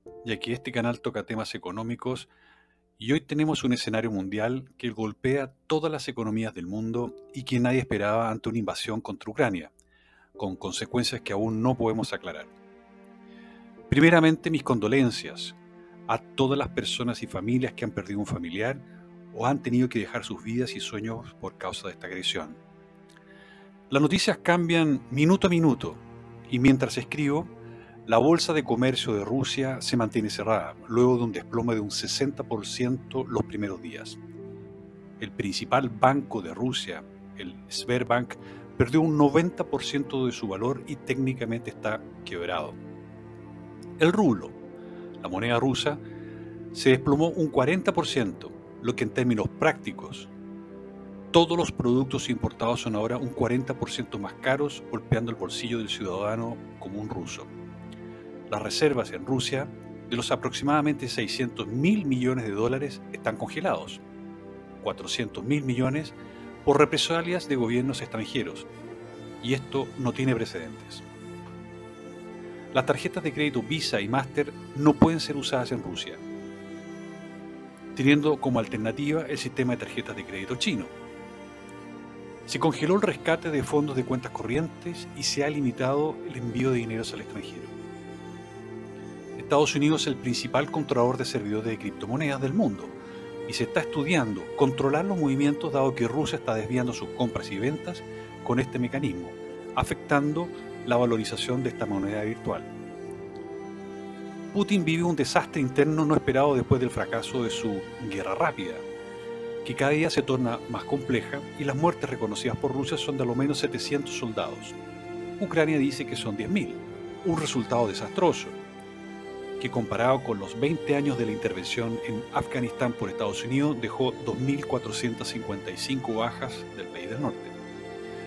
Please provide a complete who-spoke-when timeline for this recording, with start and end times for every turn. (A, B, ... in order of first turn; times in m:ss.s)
0:00.2-0:02.3 A
0:03.0-0:09.7 A
0:10.4-0:12.5 A
0:13.9-0:15.6 A
0:16.1-0:22.6 A
0:23.9-0:27.5 A
0:28.1-0:34.2 A
0:35.2-0:42.8 A
0:44.0-0:44.6 A
0:45.2-0:46.0 A
0:46.7-0:50.3 A
0:51.3-0:57.5 A
0:58.5-1:04.0 A
1:04.8-1:08.7 A
1:09.4-1:11.0 A
1:12.7-1:16.2 A
1:17.9-1:20.9 A
1:22.5-1:27.7 A
1:29.4-1:32.9 A
1:33.5-1:42.7 A
1:44.5-1:48.8 A
1:49.6-1:54.8 A
1:55.4-1:58.6 A
1:59.6-2:07.6 A